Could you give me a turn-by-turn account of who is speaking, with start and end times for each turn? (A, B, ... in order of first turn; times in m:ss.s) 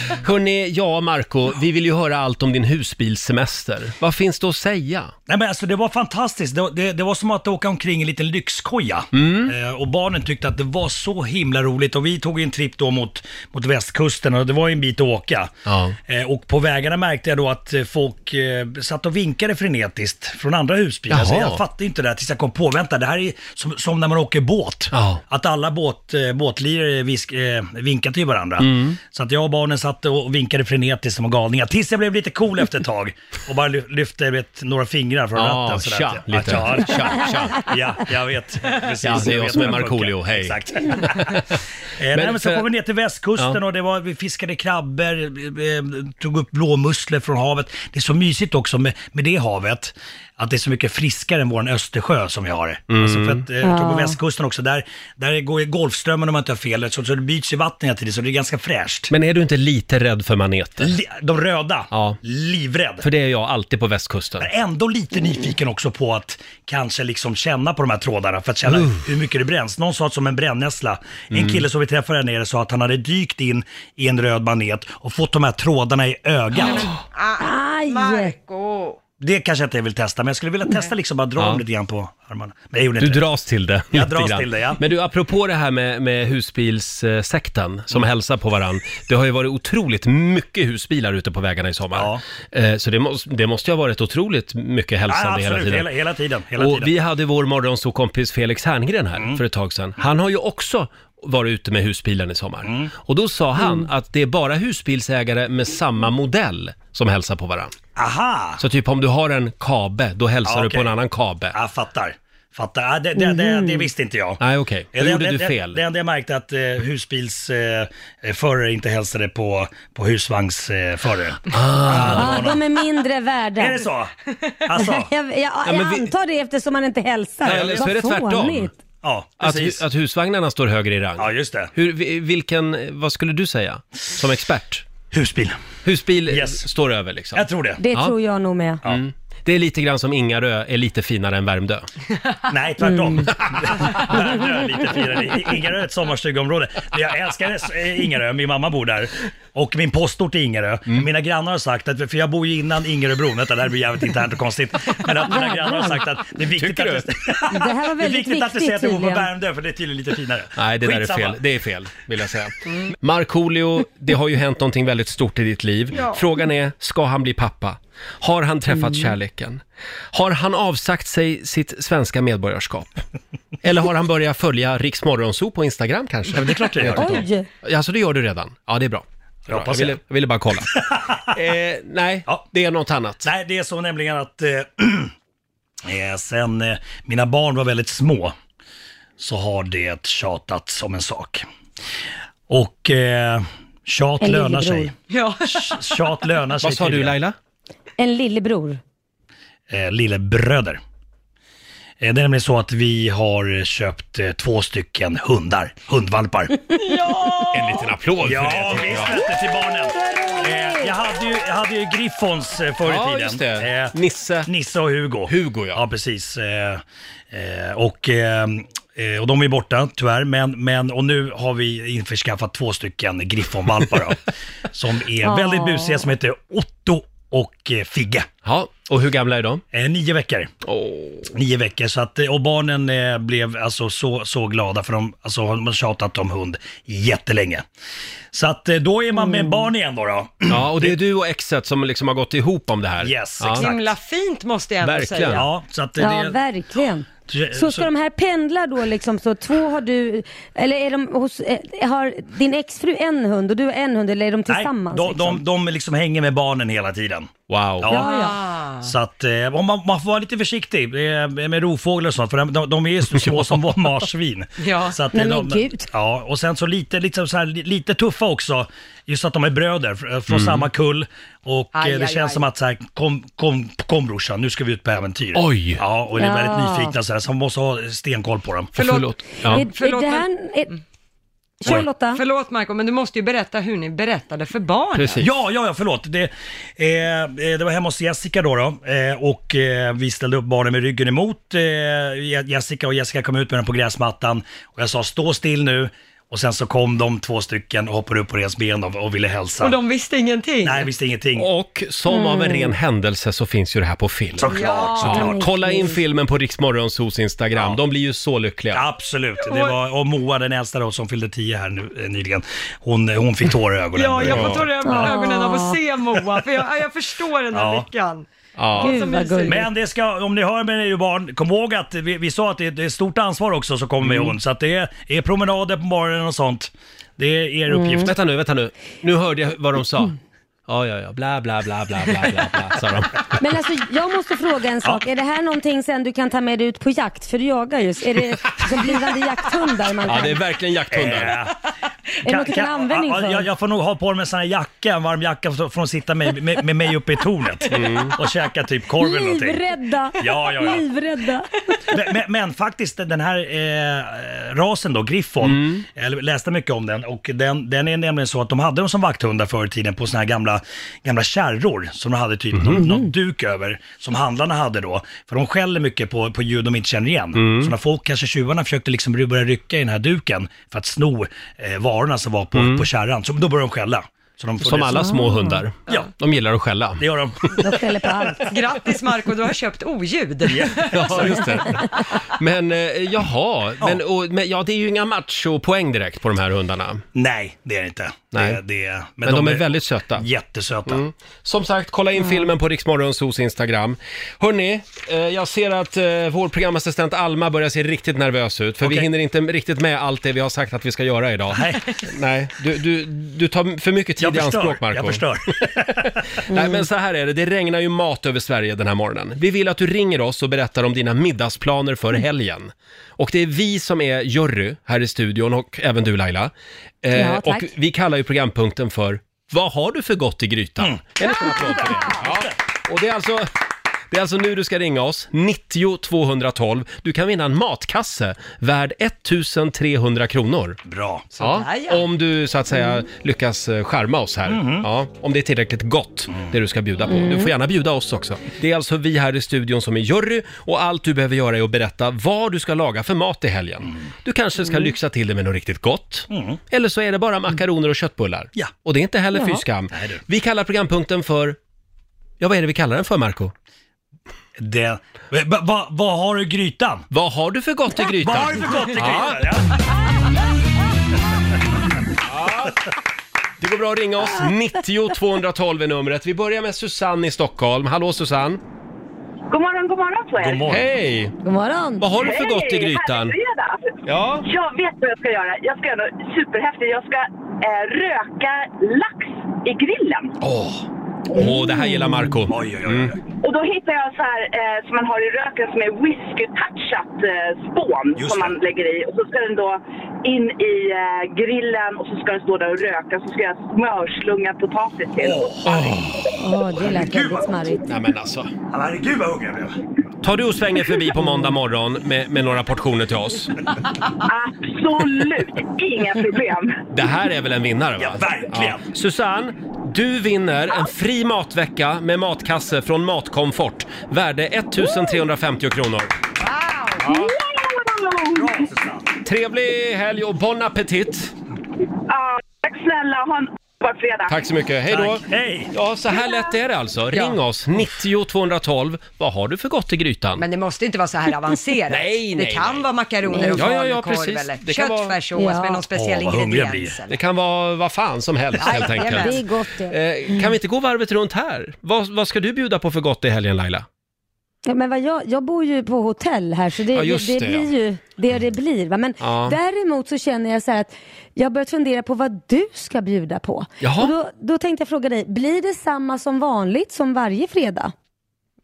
0:00.2-0:05.1 A
0:05.3-0:15.5 B
0:09.1-0:09.5 A
0:15.6-0:16.0 A
0:16.0-0:59.1 B
0:21.1-0:21.6 A
0:24.9-0:25.2 A
0:28.6-0:29.0 A
0:35.4-0:37.6 A
0:39.0-0:41.6 A
0:42.1-0:42.6 A
0:52.9-0:53.4 A
0:53.6-0:54.2 C
0:59.1-1:00.9 A
1:00.8-1:03.0 B
1:01.9-1:02.2 A
1:03.0-1:04.5 A
1:04.4-1:16.9 B
1:08.7-1:09.0 A
1:11.3-1:11.6 A
1:16.6-1:19.0 D
1:17.4-1:18.3 C
1:19.2-1:23.2 B
1:23.0-1:35.9 A
1:23.9-1:24.8 B
1:31.9-1:32.2 B
1:35.1-1:36.9 B
1:36.6-1:47.8 A
1:42.6-1:42.9 B
1:43.6-1:43.9 C
1:48.0-1:48.6 B
1:48.6-1:51.5 A
1:50.4-1:50.9 B
1:51.5-1:54.4 B
1:53.2-1:53.9 C
1:54.4-1:55.8 A
1:54.9-2:02.6 B
2:01.5-2:02.5 A
2:01.9-2:03.9 C
2:03.6-2:04.1 B
2:04.6-2:05.1 B
2:04.7-2:08.7 C
2:05.6-2:06.1 A
2:07.4-2:08.7 A
2:07.4-2:07.8 B
2:09.0-2:09.8 B
2:09.4-2:14.9 A
2:11.2-2:11.7 B
2:15.1-2:15.6 B
2:15.8-2:18.1 A
2:16.3-2:16.6 B
2:17.3-2:17.8 B
2:17.8-2:18.8 C
2:18.8-2:21.9 A
2:22.5-2:41.4 B
2:22.8-2:23.3 C
2:35.2-2:36.1 C
2:36.5-2:37.1 A
2:37.5-2:39.3 C
2:40.6-2:49.6 A
2:48.7-2:49.1 C
2:50.1-2:53.0 A
2:53.6-3:03.3 A
2:56.3-2:57.2 B
2:56.9-2:57.5 C
2:59.5-3:00.0 B
3:00.7-3:01.2 B
3:03.2-3:05.1 B
3:05.8-3:08.3 B
3:09.2-3:11.4 B
3:12.5-3:14.9 B
3:14.2-3:14.9 C
3:15.1-3:16.0 D
3:15.4-3:17.2 B
3:16.6-3:17.4 A
3:18.0-3:18.8 C
3:19.7-3:20.8 B
3:22.0-3:26.6 B
3:27.5-3:29.2 A
3:28.2-3:33.9 B
3:29.9-3:31.0 C
3:32.8-3:34.5 A
3:34.4-3:48.3 B
3:35.3-3:35.8 A
3:45.2-3:46.1 C
3:48.4-3:49.6 A
3:49.7-3:50.5 B
3:50.6-3:51.3 A
3:51.3-3:57.6 B
3:58.3-4:00.9 B
3:59.1-3:59.7 C
4:00.5-4:03.7 A
4:03.0-4:03.8 B
4:03.6-4:05.5 D
4:04.8-4:05.4 A
4:05.3-4:06.4 B
4:06.0-4:15.4 C
4:07.3-4:07.9 B
4:14.5-4:18.1 B
4:17.5-4:17.9 A
4:17.9-4:18.4 C
4:17.9-4:18.9 D
4:18.8-4:38.7 B
4:24.6-4:25.0 D
4:25.1-4:25.9 C
4:30.3-4:30.7 A
4:31.7-4:32.4 D
4:35.3-4:35.8 A
4:36.2-4:36.9 C
4:38.8-4:39.6 A
4:38.8-4:40.8 D
4:39.5-4:40.7 C
4:41.6-4:42.2 C
4:41.6-4:45.2 D
4:44.9-4:45.3 A
4:45.2-4:59.8 B
4:59.6-5:00.9 D
5:00.6-5:01.5 B
5:01.4-5:08.8 A
5:02.1-5:02.7 C
5:04.4-5:05.4 B
5:04.5-5:05.2 D
5:05.0-5:06.0 C
5:08.7-5:14.7 B
5:09.4-5:09.8 D
5:13.9-5:19.7 D
5:14.2-5:14.6 A
5:14.8-5:15.8 C
5:17.5-5:17.9 B
5:18.6-5:19.0 A
5:18.8-5:19.7 C
5:19.5-5:28.1 B
5:24.0-5:24.3 A
5:27.7-5:28.1 C
5:28.0-5:30.1 A
5:30.7-5:33.4 A
5:33.4-5:40.4 C
5:40.0-5:41.4 A
5:40.9-5:41.5 B
5:42.2-5:43.5 C
5:42.2-5:49.6 B
5:47.7-5:48.1 A
5:49.0-5:51.5 C
5:50.2-5:50.8 B
5:51.9-6:15.1 B
5:55.4-5:55.8 A
6:02.5-6:02.8 A
6:02.8-6:03.1 C
6:07.3-6:07.7 A
6:12.5-6:12.8 A
6:14.6-6:17.5 A
6:14.9-6:15.6 C
6:17.0-6:17.6 B
6:17.6-6:18.5 C
6:18.5-6:21.3 D
6:20.5-6:21.5 B
6:20.9-6:27.0 A
6:27.1-6:31.0 B
6:28.3-6:28.6 A
6:29.2-6:30.3 A
6:30.8-6:56.5 A
6:32.2-6:32.5 C
6:38.8-6:39.1 B
6:41.5-6:42.0 B
6:44.2-6:46.2 B
6:46.5-6:46.8 C
6:57.0-7:03.5 A
6:57.1-6:57.7 C
7:00.8-7:02.5 B
7:04.1-7:10.8 A
7:10.8-7:11.3 B
7:11.4-7:12.0 D
7:11.4-7:31.6 A
7:14.5-7:14.9 B
7:17.1-7:17.5 C
7:24.6-7:24.9 C
7:26.3-7:26.6 B
7:29.3-7:29.6 C
7:29.9-7:30.2 B
7:32.4-7:33.5 A
7:34.6-7:37.0 B
7:37.1-7:39.5 A
7:38.2-7:39.6 B
7:42.2-7:42.8 A
7:43.6-7:48.6 A
7:49.5-7:50.6 E
7:50.4-7:50.9 B
7:50.7-7:51.3 A
7:51.4-7:52.1 C
7:52.0-7:53.4 A
7:52.2-7:53.7 E
7:54.0-7:54.5 A
7:54.4-8:00.3 E
8:00.4-8:00.8 B
8:01.3-8:03.1 A
8:01.4-8:02.4 C
8:02.5-8:03.2 B
8:03.4-8:15.5 E
8:08.1-8:08.6 B
8:15.2-8:17.6 B
8:15.6-8:16.0 A
8:16.3-8:17.8 C
8:17.8-8:18.5 A
8:18.7-8:19.8 B
8:20.2-8:23.5 A
8:21.2-8:21.5 C
8:24.3-8:26.7 E
8:26.9-8:36.1 A
8:28.0-8:28.8 B
8:37.0-8:37.3 A
8:37.1-8:38.4 E
8:38.3-8:39.1 B
8:39.2-8:41.3 A
8:42.1-8:44.3 E
8:44.3-8:50.4 A
8:44.9-8:45.7 B
8:50.4-8:57.2 D
8:51.9-8:52.9 A
8:53.3-8:53.7 C
8:53.5-8:55.2 A
8:55.4-8:55.8 C
8:55.9-8:57.0 B
8:57.1-9:03.8 A
8:58.6-8:59.4 D
8:58.7-9:00.5 C
9:04.6-9:17.9 C
9:06.9-9:07.7 A
9:09.2-9:09.6 A
9:13.8-9:14.1 A